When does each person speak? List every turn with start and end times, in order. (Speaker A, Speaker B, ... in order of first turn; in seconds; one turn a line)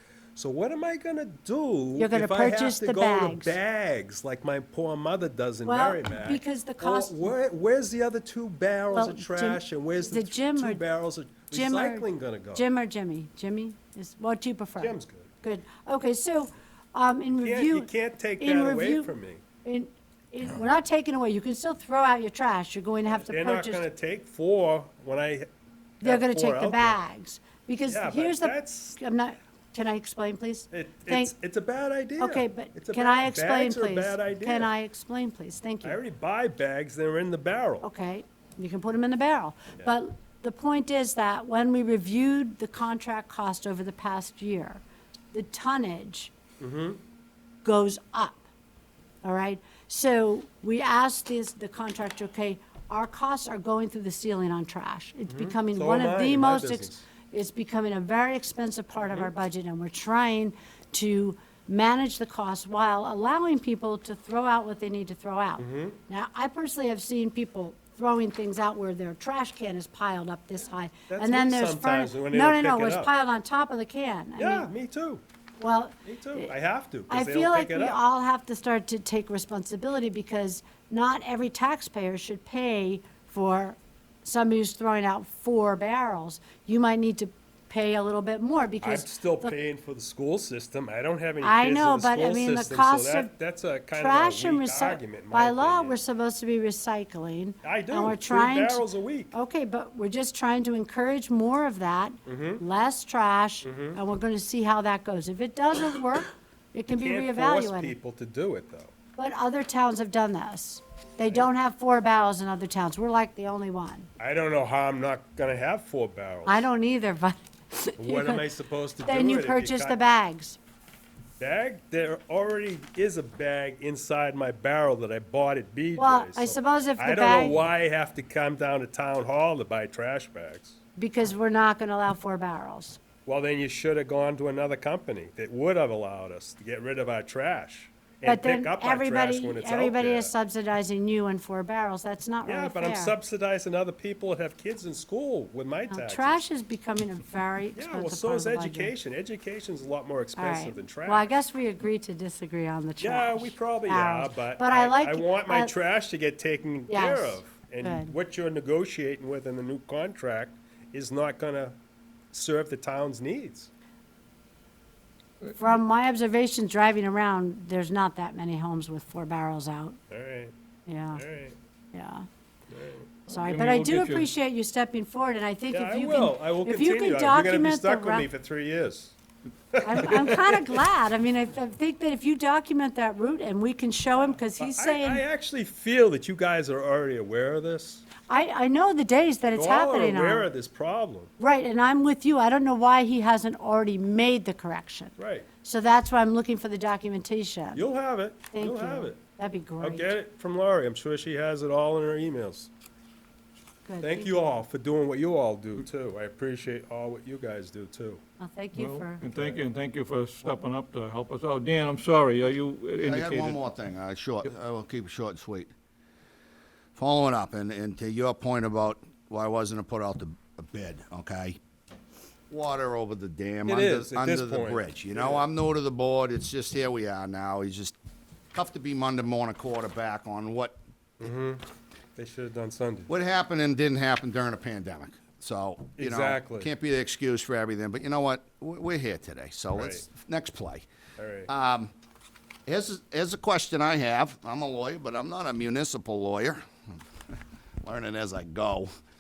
Speaker A: 0.4-12.7
Speaker B: 2.0-3.6
Speaker B: 5.7-7.3
Speaker B: 8.9-10.8
Speaker B: 11.5-19.1
Speaker A: 14.8-15.3
Speaker A: 17.4-19.4
Speaker B: 19.6-23.9
Speaker A: 23.1-25.5
Speaker B: 26.0-31.3
Speaker A: 26.0-27.0
Speaker A: 27.9-29.0
Speaker A: 30.7-34.7
Speaker B: 32.2-36.0
Speaker A: 35.8-37.9
Speaker B: 37.8-46.3
Speaker A: 46.6-47.0
Speaker B: 47.6-48.5
Speaker B: 49.2-74.7
Speaker A: 55.3-57.0
Speaker A: 65.6-66.0
Speaker A: 71.1-73.1
Speaker A: 74.4-75.2
Speaker B: 75.6-76.5
Speaker A: 76.0-78.0
Speaker B: 77.1-89.5
Speaker A: 88.8-96.0
Speaker B: 91.4-93.3
Speaker B: 93.9-108.0
Speaker A: 97.6-99.3
Speaker A: 102.3-102.6
Speaker A: 103.7-104.0
Speaker A: 106.9-108.9
Speaker B: 109.2-114.1
Speaker A: 114.2-116.7
Speaker B: 116.5-118.5
Speaker A: 118.0-120.0
Speaker B: 119.0-120.6
Speaker A: 121.4-130.8
Speaker B: 126.0-127.6
Speaker B: 131.0-133.0
Speaker A: 133.3-140.3
Speaker B: 138.2-143.2
Speaker A: 142.5-146.4
Speaker B: 145.9-148.9
Speaker A: 147.8-151.3
Speaker B: 150.4-155.7
Speaker A: 153.0-161.8
Speaker B: 156.9-158.1
Speaker A: 162.3-163.7
Speaker B: 165.5-170.0
Speaker A: 170.1-170.5
Speaker B: 170.9-171.2
Speaker A: 171.1-171.6
Speaker B: 171.9-172.2
Speaker A: 172.7-173.1
Speaker B: 173.3-178.3
Speaker C: 173.3-174.3
Speaker A: 175.7-179.2
Speaker A: 179.7-180.8
Speaker B: 179.8-185.2
Speaker A: 184.5-188.1
Speaker B: 188.3-190.5
Speaker A: 189.6-191.3
Speaker B: 191.4-197.8
Speaker A: 195.2-195.5
Speaker A: 197.7-199.2
Speaker B: 198.5-200.1
Speaker A: 199.8-202.7
Speaker B: 203.8-204.3
Speaker A: 204.0-208.2
Speaker B: 208.4-209.2
Speaker C: 208.8-213.6
Speaker D: 213.0-215.7
Speaker D: 217.0-221.6
Speaker D: 222.5-228.0
Speaker A: 223.7-225.5
Speaker D: 228.5-230.8
Speaker A: 231.2-231.6
Speaker A: 232.2-233.1
Speaker D: 233.1-240.9
Speaker A: 236.0-236.7
Speaker A: 239.7-240.1
Speaker A: 241.2-241.5
Speaker D: 241.5-241.9
Speaker D: 242.7-246.6
Speaker D: 247.8-248.9